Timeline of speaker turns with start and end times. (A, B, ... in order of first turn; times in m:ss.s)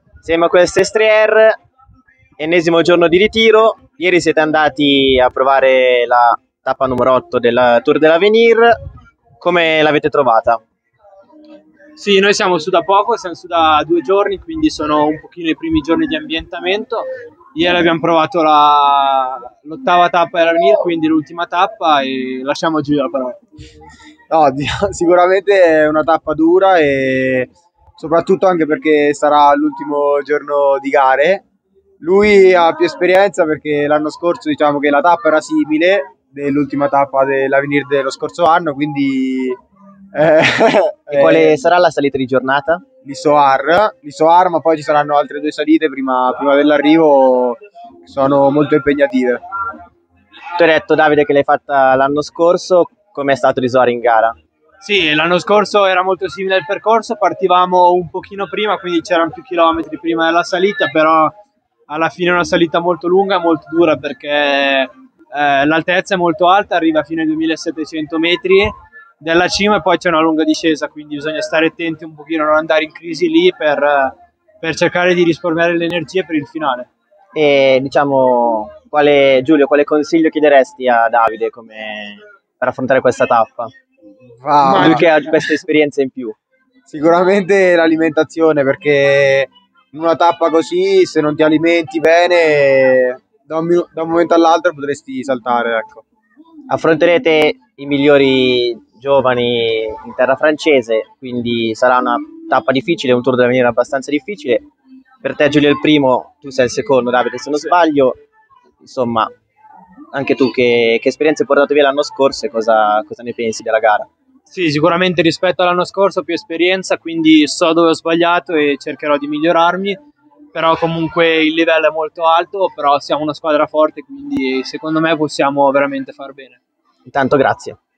0:00.2-0:01.6 A
0:02.4-0:08.7 A
0:09.4-0:10.6 A
0:12.0-0:23.4 B
0:24.3-0:31.4 C
0:32.0-0:39.6 C
0:40.1-0:41.6 C
0:41.1-0:42.8 A
0:43.0-0:49.4 C
0:50.6-0:54.4 A
0:54.8-1:01.3 B
1:01.9-1:16.9 B
1:17.4-1:23.7 A
1:24.4-1:25.1 C
1:24.6-1:26.4 A
1:26.9-1:36.0 C
1:36.7-1:44.6 A
1:45.2-1:48.2 A
1:48.8-1:49.3 A
1:50.1-1:54.1 A
1:54.5-2:00.0 B
2:00.5-2:06.6 B
2:07.1-2:07.8 A